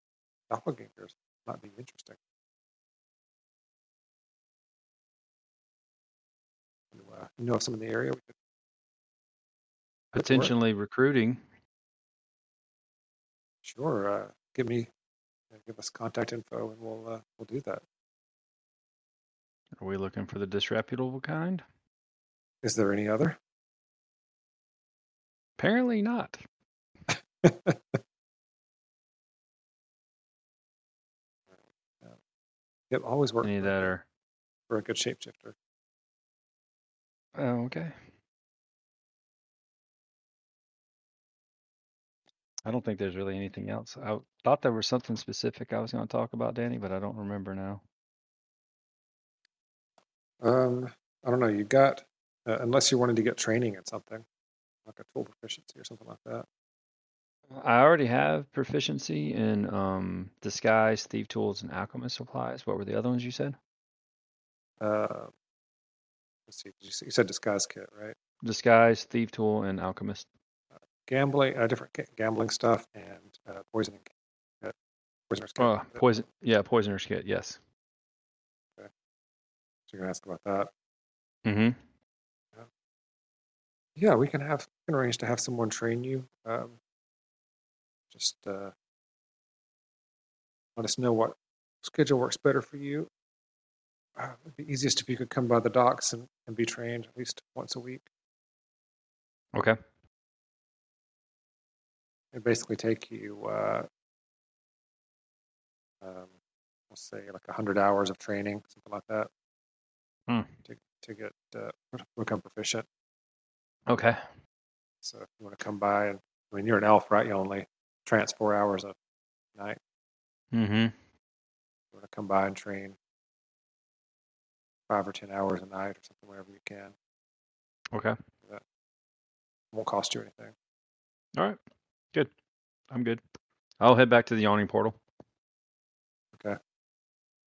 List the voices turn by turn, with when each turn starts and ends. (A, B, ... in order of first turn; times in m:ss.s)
0:00.5-0:02.2 A
0:06.9-0:08.3 A
0:10.1-0:10.5 A
0:10.2-0:11.4 B
0:13.6-0:14.9 A
0:15.5-0:17.8 A
0:19.8-0:21.6 B
0:22.6-0:23.4 A
0:25.6-0:26.4 B
0:27.4-0:27.8 A
0:31.5-0:32.2 A
0:32.9-0:33.9 A
0:33.4-0:34.0 B
0:34.7-0:35.6 A
0:37.4-0:38.0 B
0:42.6-0:47.8 B
0:50.4-0:54.2 A
0:54.9-0:56.5 A
0:57.5-1:03.6 B
1:04.8-1:05.3 A
1:06.5-1:08.2 A
1:08.4-1:10.3 B
1:11.1-1:14.1 A
1:15.3-1:16.0 A
1:15.6-1:17.6 B
1:19.9-1:20.7 A
1:21.4-1:21.8 B
1:24.0-1:26.8 A
1:28.1-1:28.7 A
1:30.8-1:33.1 A
1:34.2-1:38.1 A
1:42.3-1:43.9 A
1:46.0-1:46.3 A
1:46.9-1:49.3 A
1:50.3-1:50.6 B
1:50.7-1:52.9 A
1:53.9-1:54.2 B
1:55.0-1:59.0 A
2:00.5-2:00.9 B
2:01.9-2:03.0 A
2:04.9-2:06.9 A
2:09.7-2:10.5 A
2:12.9-2:13.2 B
2:13.8-2:15.0 B